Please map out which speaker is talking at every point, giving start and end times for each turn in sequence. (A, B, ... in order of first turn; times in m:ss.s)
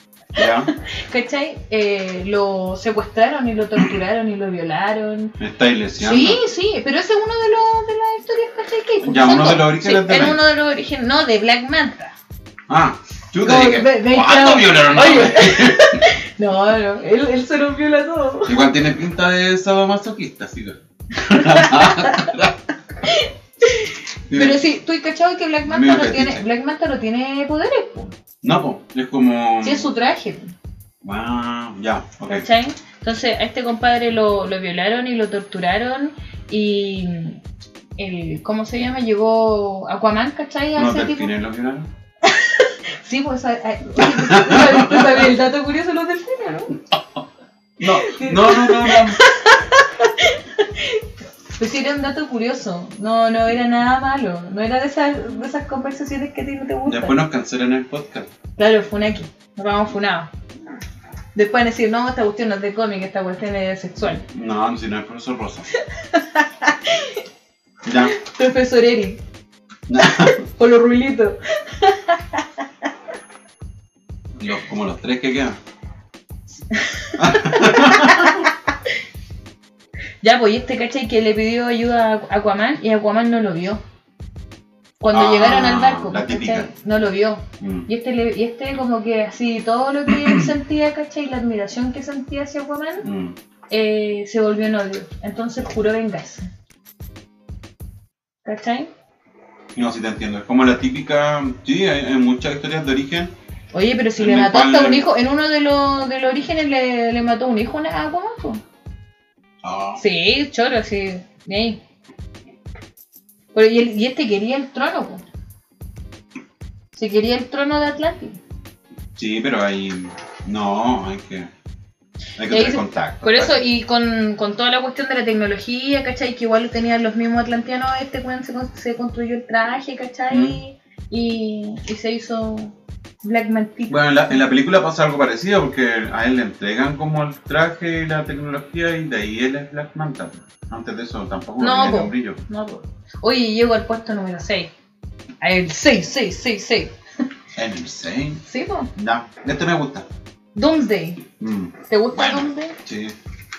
0:00.4-0:00.7 A
0:00.4-0:05.4 B
0:05.4-0:06.4 A
0:06.0-0:12.2 B
0:09.0-0:10.4 A
0:12.7-0:16.1 A
0:13.4-0:18.7 B
0:18.5-0:22.6 A
0:21.2-0:22.4 B
0:23.0-0:28.1 B
0:24.3-0:24.6 A
0:25.6-0:26.4 A
0:28.4-0:29.9 A
0:29.6-0:30.5 B
0:31.0-0:32.5 A
0:32.3-0:37.4 B
0:38.0-0:41.3 B
0:40.8-0:41.9 A
0:42.2-0:46.8 B
0:44.0-0:45.3 A
0:46.9-0:47.2 A
0:47.8-0:49.2 A
0:47.9-0:57.1 B
0:56.8-0:58.3 A
0:58.6-1:00.3 B
1:01.4-1:04.2 B
1:04.3-1:05.7 A
1:05.8-1:07.2 B
1:07.8-1:08.1 A
1:08.0-1:09.2 B
1:09.9-1:10.4 A
1:10.0-1:12.9 B
1:14.4-1:15.6 A
1:16.7-1:18.6 B
1:17.2-1:18.5 A
1:20.2-1:23.8 B
1:25.0-1:33.1 B
1:25.1-1:26.7 A
1:27.6-1:27.9 A
1:30.1-1:30.4 A
1:33.0-1:33.4 A
1:33.7-1:36.5 B
1:38.4-1:38.9 B
1:39.8-1:43.3 A
1:43.7-1:48.6 B
1:44.2-1:45.1 A
1:49.6-1:50.0 A
1:50.0-1:51.8 B
1:53.5-1:55.2 B
1:56.9-1:58.4 B
1:59.2-2:01.5 A
2:02.4-2:03.6 A
2:02.5-2:14.4 B
2:10.3-2:10.6 A
2:13.9-2:22.4 A
2:21.6-2:24.7 B
2:25.4-2:26.9 B
2:27.6-2:28.4 A
2:28.5-2:28.9 B
2:29.0-2:30.1 A
2:30.6-2:31.2 B
2:31.4-2:33.2 A
2:31.9-2:32.8 B